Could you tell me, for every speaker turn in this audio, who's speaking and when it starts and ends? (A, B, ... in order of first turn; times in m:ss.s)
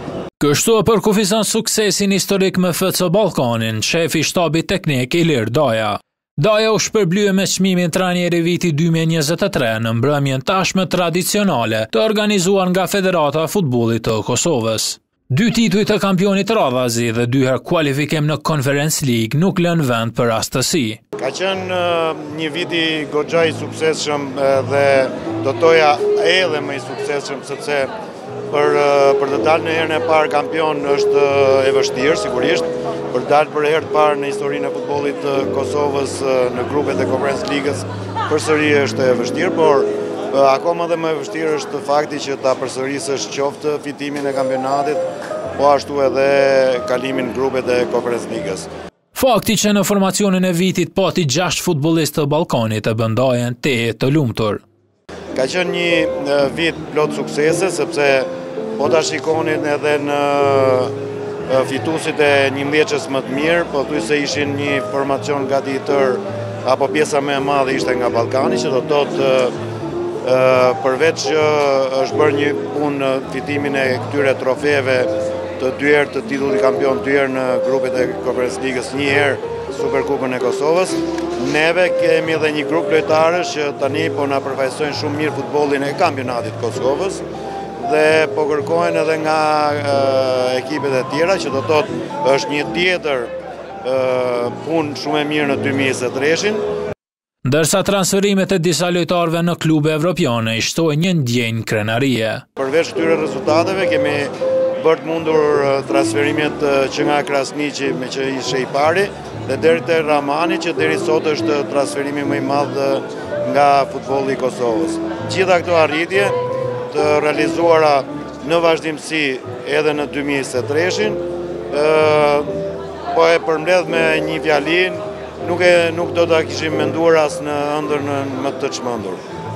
0:00.4-0:21.0 A
0:21.2-0:27.9 B
0:28.5-0:45.0 B
0:45.6-0:48.7 B
0:49.1-0:54.6 A
0:55.3-1:00.9 B
1:01.5-1:09.5 B
1:10.2-1:27.2 B
1:27.8-1:33.3 B
1:33.8-1:36.6 B
1:37.4-1:42.4 A
1:42.6-1:56.4 B
1:56.9-2:02.5 B
2:03.1-2:09.2 B